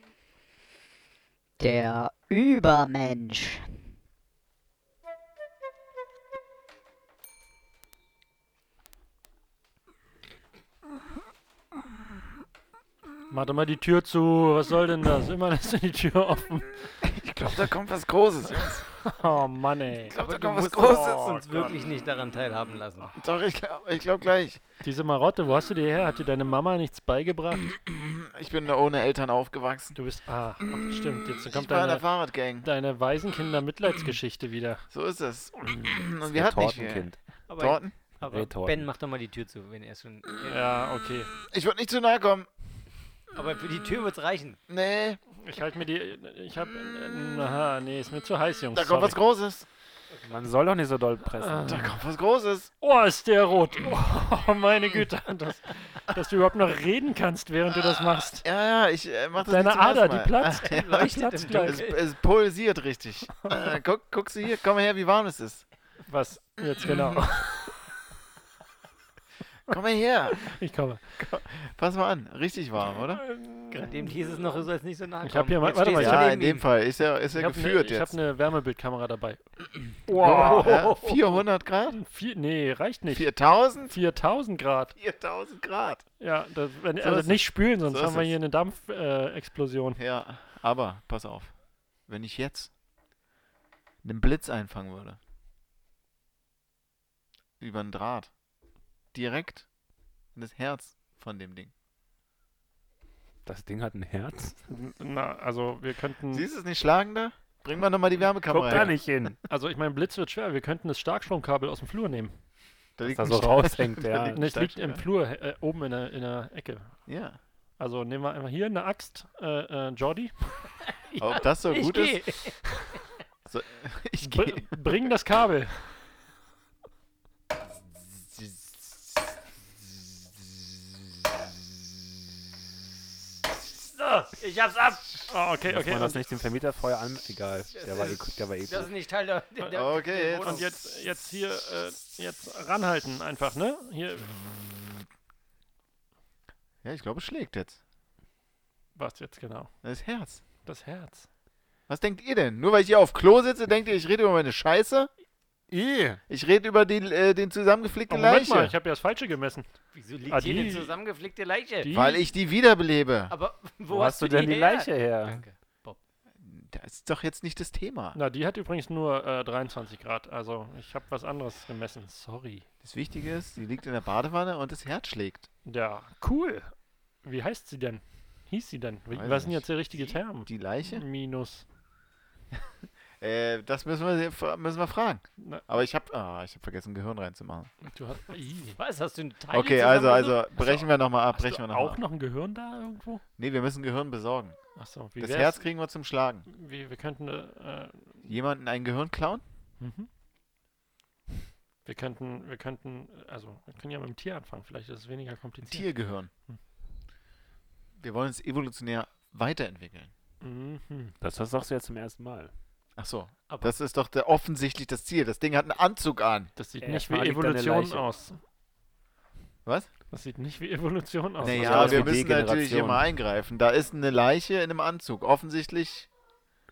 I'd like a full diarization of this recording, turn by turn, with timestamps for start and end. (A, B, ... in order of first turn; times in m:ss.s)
0:01.6-0:03.8 A
0:13.3-0:17.0 B
0:17.0-0:18.9 C
0:19.0-0:20.2 B
0:20.1-0:21.3 C
0:20.1-0:23.1 D
0:20.8-0:21.8 B
0:23.2-0:24.6 C
0:24.8-0:27.7 B
0:27.8-0:30.0 C
0:30.0-0:32.0 B
0:30.6-0:32.7 C
0:32.6-0:34.9 B
0:34.9-0:38.0 C
0:35.6-0:35.9 B
0:36.3-0:37.2 E
0:37.5-0:40.7 D
0:38.3-0:38.9 E
0:40.5-0:41.3 B
0:41.5-0:42.5 C
0:43.3-0:44.6 D
0:44.7-0:45.2 C
0:45.4-0:49.2 B
0:48.7-0:49.7 C
0:50.3-0:51.8 E
0:51.4-0:51.9 B
0:51.7-0:52.7 C
0:52.8-0:58.4 B
0:58.4-1:05.7 C
0:59.5-1:01.8 B
1:00.7-1:02.0 D
1:06.1-1:07.8 B
1:09.7-1:10.6 C
1:10.4-1:11.0 B
1:11.2-1:13.2 C
1:13.2-1:14.1 B
1:13.7-1:16.7 D
1:15.2-1:16.3 B
1:15.9-1:18.2 C
1:17.3-1:19.4 B
1:20.1-1:21.0 B
1:20.1-1:22.0 C
1:20.1-1:21.3 D
1:21.9-1:23.3 B
1:23.1-1:23.9 C
1:23.9-1:24.9 B
1:25.0-1:26.0 C
1:26.2-1:30.0 B
1:27.0-1:28.4 C
1:30.0-1:31.5 C
1:32.1-1:32.7 C
1:34.0-1:35.2 C
1:37.6-1:38.3 C
1:39.1-1:39.7 C
1:40.4-1:41.7 C
1:43.5-1:44.6 E
1:44.7-1:46.5 B
1:46.3-1:49.0 C
1:48.5-1:49.4 E
1:49.5-1:52.3 B
1:53.0-1:55.0 C
1:53.0-1:54.4 E
1:54.3-1:56.9 B
1:57.1-1:57.4 C
1:57.8-2:00.3 B
2:01.1-2:02.7 D
2:01.2-2:02.2 C
2:03.5-2:04.8 C
2:04.2-2:06.0 B
2:14.0-2:15.1 D
2:15.3-2:16.3 B
2:15.6-2:18.9 E
2:17.7-2:20.7 D
2:19.6-2:24.3 B
2:19.7-2:20.7 C
2:26.8-2:27.8 C
2:29.0-2:29.7 B
2:29.8-2:30.4 C
2:30.7-2:31.3 B
2:31.9-2:35.1 C
2:35.7-2:36.2 E
2:36.3-2:38.8 C
2:38.1-2:39.7 B
2:39.9-2:42.0 D
2:40.3-2:40.9 B
2:41.8-2:42.2 B
2:41.9-2:43.3 C
2:43.3-2:46.0 D
2:43.9-2:45.4 E
2:46.4-2:48.2 C
2:48.1-2:52.7 B
2:52.8-2:55.5 C
2:55.7-2:56.7 B
2:57.2-3:01.6 B
2:59.1-3:01.0 C
3:03.2-3:07.7 C
3:05.4-3:05.6 B
3:07.8-3:08.8 B
3:08.8-3:10.4 D
3:09.5-3:12.0 C
3:10.6-3:13.2 B
3:13.4-3:14.6 C
3:14.8-3:15.6 B
3:15.2-3:16.5 C
3:16.5-3:18.2 B
3:18.2-3:19.4 C
3:19.8-3:20.1 B
3:21.8-3:25.9 B
3:25.6-3:26.3 C
3:28.0-3:30.1 C
3:30.4-3:31.1 B
3:31.2-3:32.5 E
3:33.0-3:36.5 C
3:33.5-3:33.8 D
3:36.6-3:38.4 B
3:36.8-3:38.0 E
3:39.6-3:39.9 C
3:40.1-3:42.2 B
3:41.4-3:43.1 E
3:41.4-3:46.1 C